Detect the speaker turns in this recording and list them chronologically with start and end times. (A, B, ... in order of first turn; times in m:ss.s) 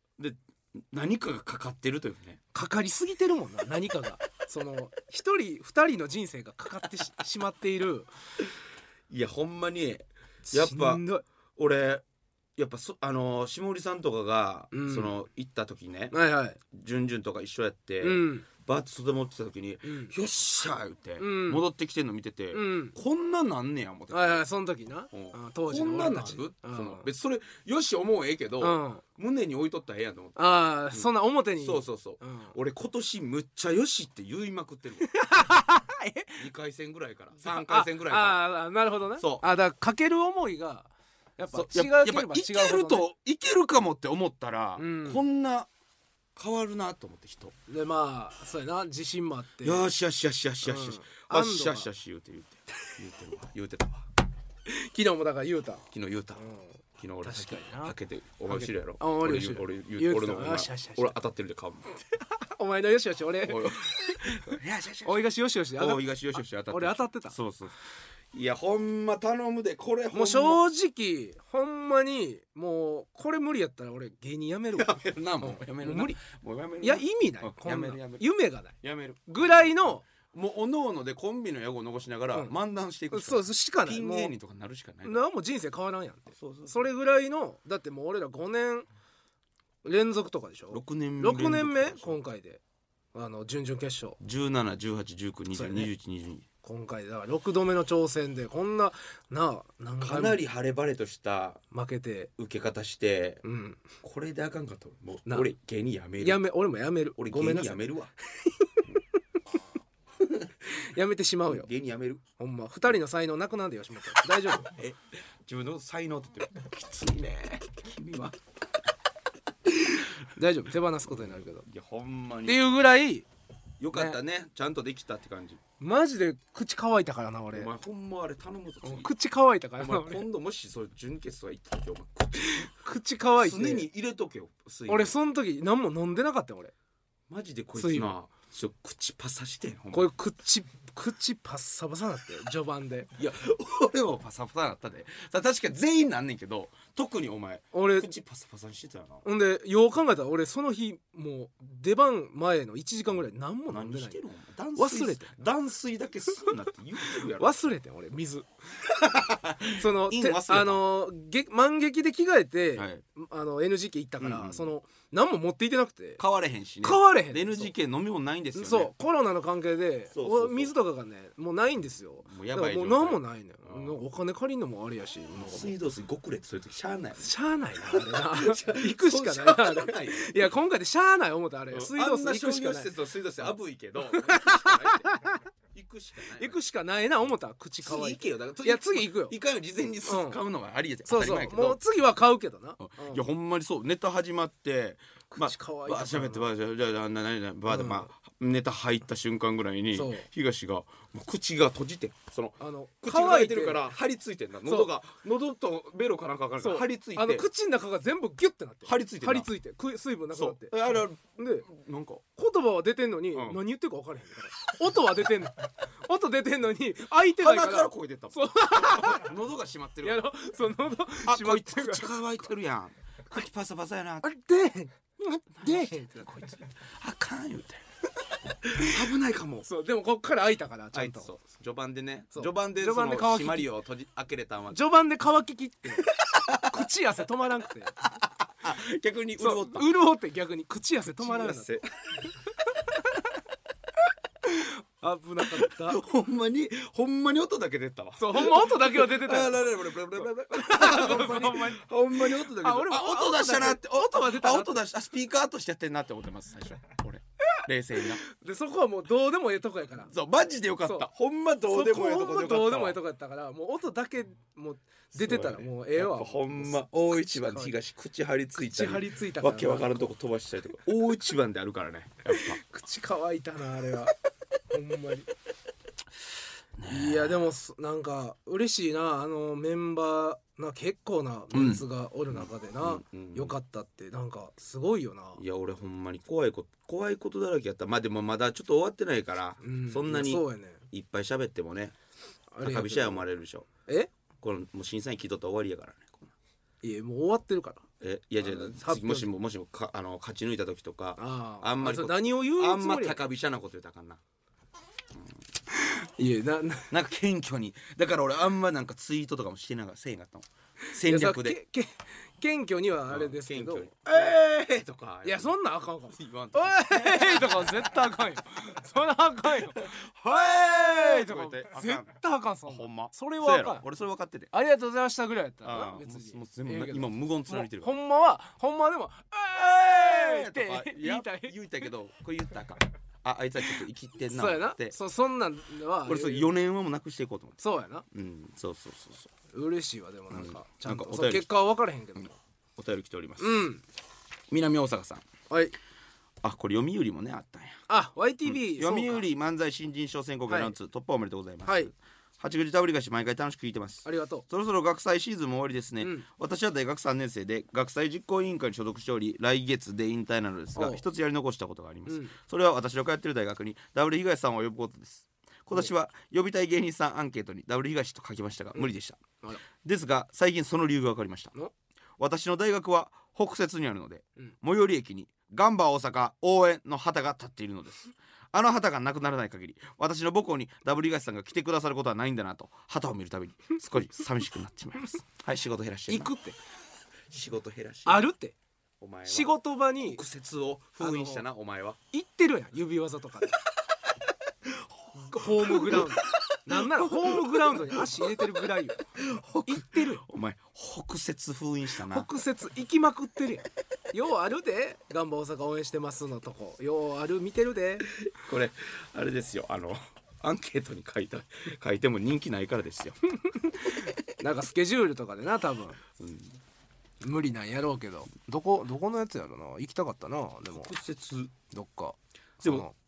0:00.2-0:02.4 A
0:02.5-0:08.1 B
0:09.1-0:11.0 A
0:10.5-0:11.2 B
0:11.6-0:12.0 A
0:12.6-0:16.2 A
0:14.7-0:15.1 B
0:16.1-0:16.6 B
0:16.7-0:24.4 A
0:18.0-0:18.5 B
0:19.8-0:20.1 B
0:21.2-0:21.6 B
0:22.5-0:23.0 B
0:24.1-0:27.1 B
0:25.1-0:35.1 A
0:28.6-0:29.0 B
0:30.4-0:32.6 B
0:35.0-0:36.5 B
0:36.4-0:38.4 A
0:37.4-0:43.0 B
0:39.2-0:39.4 A
0:41.5-0:45.7 A
0:44.8-0:45.2 B
0:46.4-0:47.6 A
0:47.7-0:49.8 B
0:49.6-0:54.1 A
0:50.6-0:51.9 B
0:54.7-0:58.0 B
0:55.9-0:56.4 A
0:57.0-1:01.9 A
0:58.5-1:01.2 B
1:02.2-1:06.0 B
1:03.4-1:05.2 A
1:05.8-1:07.8 A
1:06.7-1:07.4 B
1:08.3-1:10.6 A
1:10.1-1:16.2 B
1:14.8-1:18.2 A
1:16.8-1:18.8 B
1:18.8-1:25.2 A
1:19.3-1:20.1 B
1:23.1-1:24.3 B
1:25.0-1:28.9 B
1:26.3-1:26.9 A
1:29.8-1:32.6 B
1:30.7-1:32.2 A
1:33.1-1:34.2 B
1:34.2-1:36.5 A
1:35.5-1:35.9 B
1:36.6-1:40.4 B
1:40.0-1:41.6 A
1:41.7-1:42.3 B
1:42.4-1:43.4 A
1:43.4-1:43.9 B
1:44.0-1:46.4 A
1:46.2-1:47.8 B
1:47.2-1:48.1 A
1:50.2-1:50.5 A
1:50.7-1:51.7 B
1:51.5-1:52.2 A
1:52.4-1:54.7 B
1:54.7-1:58.4 A
2:00.3-2:01.7 B
2:01.1-2:02.6 A
2:02.4-2:03.3 B
2:03.8-2:05.6 A
2:03.9-2:04.2 B
2:05.8-2:07.7 B
2:07.5-2:09.1 A
2:08.8-2:10.2 B
2:09.8-2:12.7 A
2:12.4-2:13.9 B
2:13.4-2:15.2 A
2:14.9-2:16.7 B
2:17.3-2:20.1 A
2:17.8-2:18.2 B
2:19.9-2:23.1 B
2:23.2-2:29.2 A
2:27.7-2:28.1 B
2:29.2-2:34.2 B
2:33.7-2:37.6 A
2:34.8-2:35.3 B
2:37.0-2:38.5 B
2:39.0-2:40.8 A
2:39.7-2:46.2 B
2:42.8-2:43.0 A
2:44.2-2:44.7 A
2:46.2-2:48.9 A
2:46.8-2:47.7 B
2:48.6-2:55.7 B
2:50.1-2:50.7 A
2:52.3-2:54.0 A
2:55.4-2:57.3 A
2:57.2-3:02.9 B
2:57.8-3:00.5 A
3:01.7-3:05.1 A
3:04.1-3:05.4 B
3:05.7-3:06.6 A
3:06.3-3:09.4 B
3:07.8-3:11.8 A
3:10.1-3:10.4 B
3:11.1-3:13.2 B
3:12.8-3:27.5 A
3:15.3-3:16.5 B
3:17.7-3:18.1 B
3:19.9-3:20.3 B
3:22.6-3:23.9 B
3:26.6-3:30.8 B
3:28.8-3:29.5 A
3:30.3-3:32.2 A
3:31.4-3:31.7 B
3:32.4-3:39.3 B
3:33.3-3:33.6 A
3:37.4-3:40.2 A
3:40.0-3:42.2 B
3:41.3-3:44.3 A
3:44.2-3:46.4 B
3:45.6-3:47.8 A
3:48.6-3:49.7 A
3:49.6-3:51.3 B
3:50.9-3:54.8 A
3:52.3-3:53.7 B
3:54.7-3:58.0 B
3:56.1-3:56.8 A
3:58.0-3:59.9 A
3:59.4-4:01.7 B
4:01.1-4:02.3 A
4:04.4-4:06.0 B
4:05.4-4:18.2 A
4:08.2-4:14.8 B
4:18.2-4:20.1 B
4:20.0-4:23.0 A
4:21.7-4:27.8 B
4:25.2-4:32.6 A
4:28.6-4:30.1 B
4:32.3-4:34.1 B
4:34.7-4:35.3 B
4:36.8-4:37.4 A
4:36.9-4:45.4 B
4:41.5-4:43.6 A
4:45.4-4:52.0 A
4:49.6-4:50.8 B
4:52.5-4:53.3 B
4:52.6-4:53.7 A
4:54.4-4:56.3 A
4:56.8-4:57.8 B
4:58.0-5:04.2 A
4:58.4-4:59.3 B
5:01.2-5:03.2 B
5:05.1-5:05.4 A
5:05.7-5:06.9 B
5:06.9-5:11.6 A
5:11.0-5:14.4 B
5:13.1-5:15.6 A
5:15.2-5:23.8 B
5:16.1-5:18.0 A
5:19.6-5:22.2 A
5:22.7-5:24.5 A
5:24.5-5:31.6 B
5:25.6-5:27.9 A
5:29.6-5:35.0 A
5:34.3-5:36.5 B
5:36.0-5:37.6 A
5:37.6-5:38.1 B
5:38.1-5:39.3 A
5:39.5-5:42.4 B
5:40.3-5:41.5 A
5:42.8-5:43.7 A
5:43.4-5:43.8 B
5:44.5-5:45.3 A
5:45.5-5:45.8 B
5:46.4-5:47.8 A
5:47.9-5:49.3 B
5:48.5-6:09.2 A
5:50.5-5:50.7 B
5:51.6-5:51.9 B
5:54.0-5:54.4 B
5:56.0-5:56.3 B
6:00.8-6:01.0 B
6:02.1-6:02.4 B
6:09.8-6:11.5 A
6:12.2-6:26.3 A
6:26.1-6:26.6 B
6:27.3-6:28.3 A
6:28.1-6:28.6 B
6:29.0-6:32.0 A
6:29.3-6:30.2 B
6:31.0-6:31.4 B
6:32.1-6:33.6 B
6:34.7-6:38.6 A
6:35.2-6:39.0 B
6:39.2-6:42.3 A
6:39.7-6:40.2 B
6:42.0-6:48.1 B
6:48.3-6:53.2 A
6:53.5-6:56.0 B
6:53.9-6:54.1 A
6:56.2-6:56.6 A
6:57.2-7:00.9 B
7:00.7-7:01.5 A
7:01.7-7:02.9 B
7:02.6-7:02.9 A